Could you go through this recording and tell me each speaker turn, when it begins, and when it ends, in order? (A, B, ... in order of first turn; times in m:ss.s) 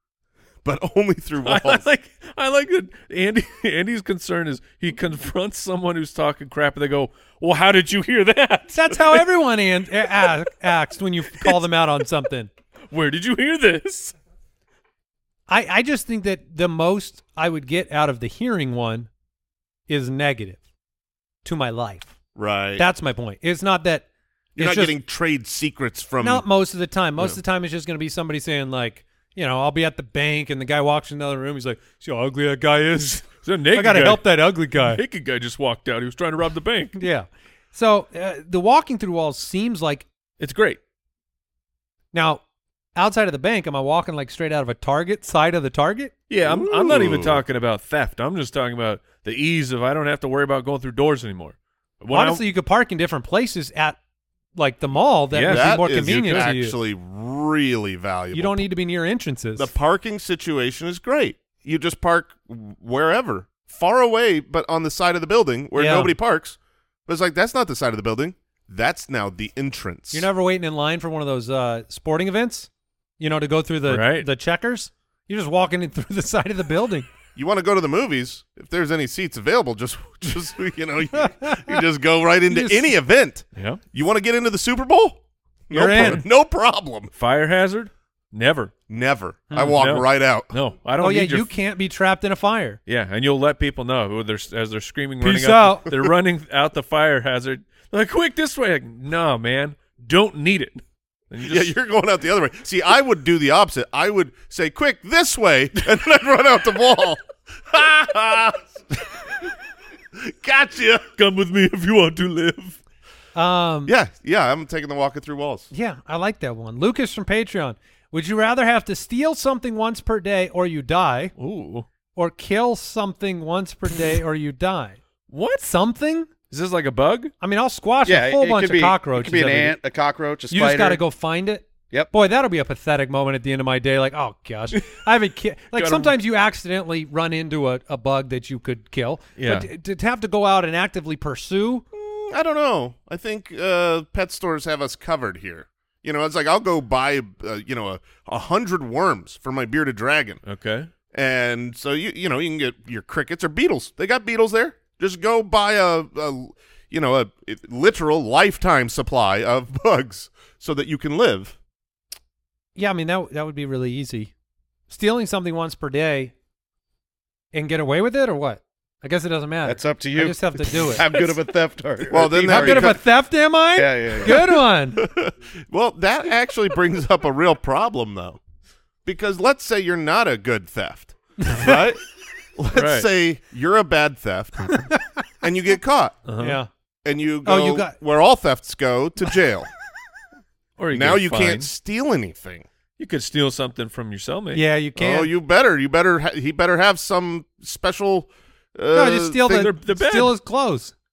0:00.6-0:01.8 A
0:01.4-0:09.3 B
0:08.7-0:12.5 C
0:12.9-0:14.1 B
0:15.5-0:19.1 C
0:19.9-0:20.6 C
0:21.4-0:22.2 C
0:22.4-0:22.9 A
0:22.8-0:25.0 C
0:24.6-0:26.4 A
0:26.2-0:35.0 C
0:33.4-0:37.0 B
0:37.0-0:40.1 C
0:40.4-0:40.8 B
0:42.1-0:42.4 C
0:43.0-0:46.1 C
0:46.3-0:52.4 B
0:46.4-0:47.4 A
0:52.1-0:54.0 C
0:54.6-0:56.8 C
0:55.3-0:55.8 B
0:55.5-0:58.6 A
0:58.3-0:59.7 C
0:59.6-1:10.3 A
1:05.8-1:06.1 C
1:10.1-1:12.7 C
1:13.2-1:17.1 C
1:13.9-1:14.3 B
1:17.4-1:27.1 A
1:21.3-1:21.8 C
1:22.5-1:22.9 C
1:23.6-1:23.8 B
1:25.7-1:26.3 C
1:27.2-1:28.7 B
1:28.9-1:30.5 A
1:29.5-1:29.8 C
1:29.6-1:31.5 B
1:31.0-1:32.8 C
1:32.9-1:41.7 B
1:35.2-1:36.1 C
1:41.5-1:49.0 A
1:50.2-1:51.1 A
1:51.2-1:52.8 B
1:53.4-1:53.9 C
1:53.9-1:55.7 A
1:55.7-2:01.3 C
2:01.4-2:01.9 B
2:02.2-2:05.0 C
2:05.3-2:05.7 B
2:05.6-2:06.3 C
2:06.5-2:07.3 B
2:07.4-2:09.8 C
2:08.0-2:11.0 D
2:10.5-2:21.8 C
2:15.7-2:16.1 B
2:19.4-2:19.7 B
2:21.9-2:30.4 A
2:30.4-2:30.9 B
2:31.1-2:41.6 A
2:42.8-2:44.3 C
2:44.9-2:46.3 C
2:47.5-2:51.1 C
2:49.6-2:53.0 D
2:52.1-2:53.0 A
2:52.4-2:55.0 C
2:53.8-2:54.5 D
2:55.0-2:58.4 A
2:59.0-3:02.0 A
3:01.4-3:01.8 C
3:02.6-3:06.2 A
3:02.7-3:03.1 B
3:06.3-3:06.6 B
3:06.4-3:06.7 C
3:07.0-3:09.7 A
3:07.4-3:08.0 C
3:10.8-3:11.7 B
3:10.9-3:12.7 A
3:13.0-3:14.6 B
3:14.5-3:15.3 C
3:15.0-3:19.7 A
3:18.9-3:20.9 C
3:19.5-3:20.4 B